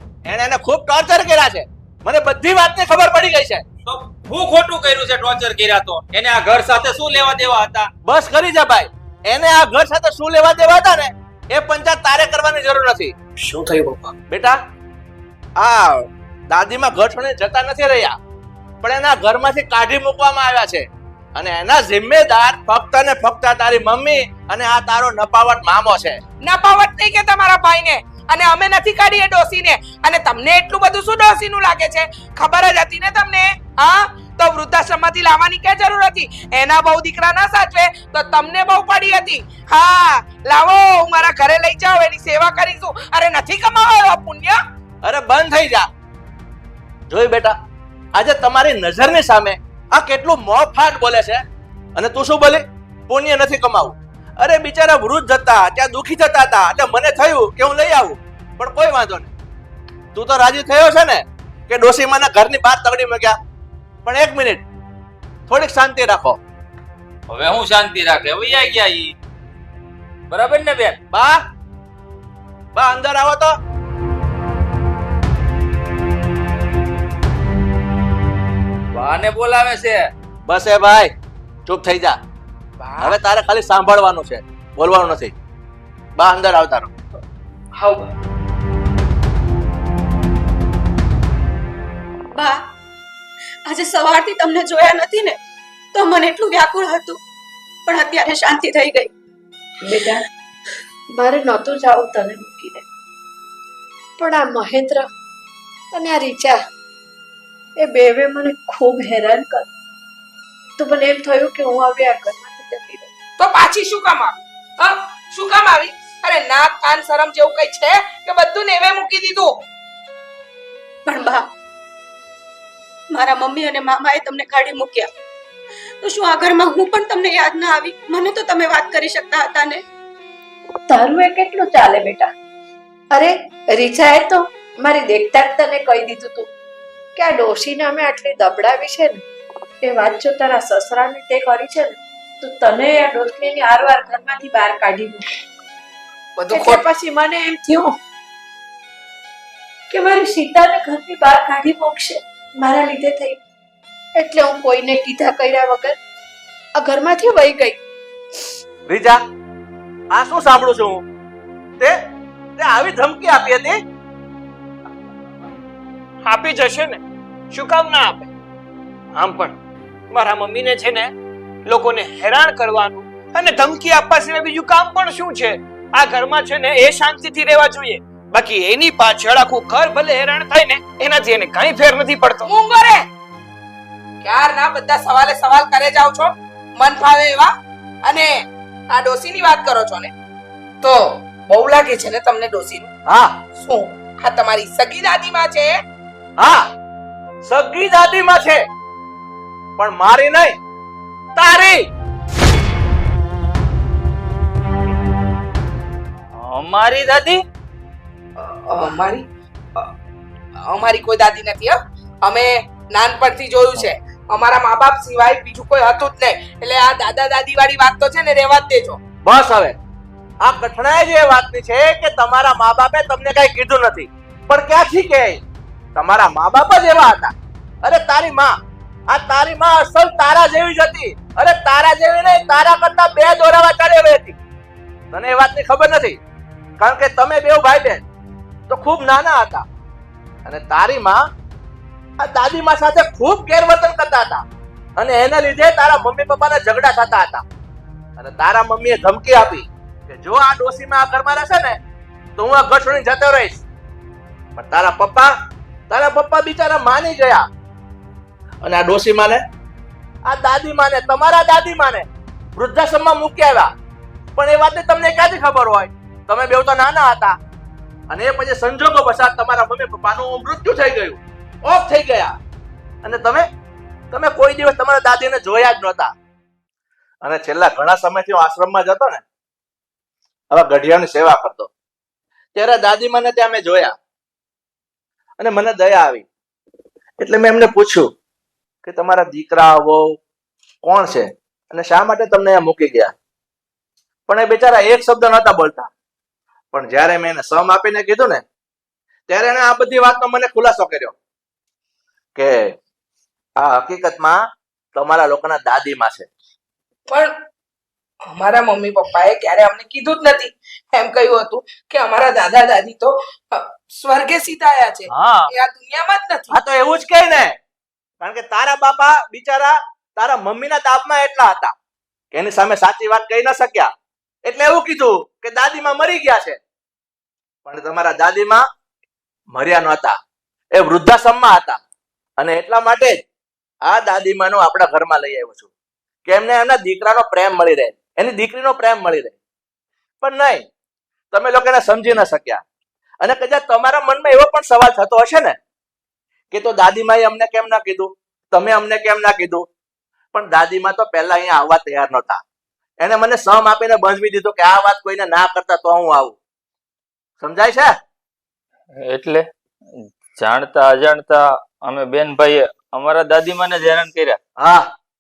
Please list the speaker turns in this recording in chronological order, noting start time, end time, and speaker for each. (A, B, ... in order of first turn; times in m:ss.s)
0:00.3-0:03.6 A
0:03.9-0:07.9 B
0:08.0-0:13.1 A
0:13.4-0:14.1 C
0:14.3-0:14.6 A
0:15.6-0:18.2 A
0:18.8-0:26.2 A
0:26.4-0:44.6 D
0:45.0-0:45.9 A
0:47.1-0:47.6 A
0:48.2-0:51.4 A
0:52.0-0:59.3 A
1:00.1-1:03.4 A
1:04.0-1:04.6 A
1:05.5-1:06.4 A
1:07.3-1:09.1 B
1:10.3-1:11.0 B
1:11.1-1:11.4 A
1:12.8-1:13.5 A
1:18.9-1:20.1 B
1:20.5-1:21.1 A
1:21.7-1:22.2 A
1:22.8-1:23.2 D
1:23.0-1:25.3 A
1:26.2-1:26.9 A
1:27.8-1:28.1 D
1:32.3-1:32.6 E
1:33.7-1:35.4 E
1:36.0-1:37.2 E
1:37.9-1:39.1 E
1:39.8-1:40.2 F
1:41.1-1:42.8 F
1:44.2-1:45.1 F
1:45.9-1:46.6 F
1:47.8-1:49.7 F
1:50.8-1:53.1 F
1:53.4-1:59.6 D
2:01.1-2:01.5 E
2:03.1-2:05.1 E
2:06.0-2:09.8 E
2:10.9-2:12.3 F
2:13.1-2:16.5 F
2:17.2-2:19.2 F
2:19.8-2:25.3 F
2:26.4-2:26.9 D
2:26.5-2:27.9 F
2:29.9-2:33.4 F
2:34.2-2:36.0 F
2:36.8-2:37.8 F
2:38.9-2:39.2 A
2:40.1-2:41.0 A
2:42.6-2:43.8 A
2:46.2-2:48.3 C
2:49.2-2:49.6 C
2:50.1-2:51.1 C
2:51.7-3:02.5 C
3:02.4-3:03.0 D
3:04.2-3:07.5 D
3:08.0-3:10.1 D
3:10.8-3:12.9 D
3:13.1-3:13.3 A
3:13.6-3:15.8 D
3:17.4-3:18.6 A
3:19.8-3:20.6 A
3:21.4-3:21.9 A
3:26.3-3:27.4 B
3:28.4-3:29.2 D
3:30.6-3:39.0 D
3:39.2-3:39.8 A
3:40.4-3:45.4 A
3:46.0-3:47.3 A
3:47.8-3:48.6 A
3:49.1-3:54.4 A
3:55.1-3:56.2 A
3:56.8-3:58.0 A
3:58.7-3:59.6 A
4:00.5-4:01.2 A
4:02.2-4:04.4 A
4:05.0-4:07.4 A
4:08.2-4:11.8 A
4:12.4-4:13.6 A
4:14.6-4:15.3 A
4:15.9-4:17.4 A
4:18.6-4:19.4 A
4:20.3-4:23.7 A
4:24.4-4:27.4 A
4:28.1-4:32.3 A
4:33.0-4:33.5 A
4:34.1-4:36.1 A
4:37.2-4:39.2 A
4:40.5-4:41.7 A
4:42.6-4:43.9 A
4:45.4-4:46.3 A
4:47.2-4:48.1 A
4:48.8-4:50.0 A
4:50.8-4:53.1 A
4:54.3-4:55.9 A
4:56.7-4:58.4 A
4:59.3-5:01.2 A
5:03.6-5:04.4 A
5:05.0-5:06.3 A
5:08.3-5:16.6 D
5:15.1-5:15.5 A
5:16.5-5:17.5 A
5:18.2-5:21.7 A
5:22.3-5:23.9 A
5:24.4-5:26.6 A
5:27.7-5:28.6 A
5:29.5-5:30.1 A
5:30.8-5:31.8 A
5:32.4-5:33.2 A
5:33.9-5:35.7 A
5:36.3-5:39.4 A
5:40.2-5:40.6 A
5:41.3-5:42.6 A
5:43.2-5:45.6 A
5:46.5-5:49.7 A
5:50.3-5:52.4 A
5:53.0-5:56.4 A
5:57.4-5:57.9 A
5:59.0-5:59.5 B
6:00.1-6:04.4 B
6:04.6-6:04.9 A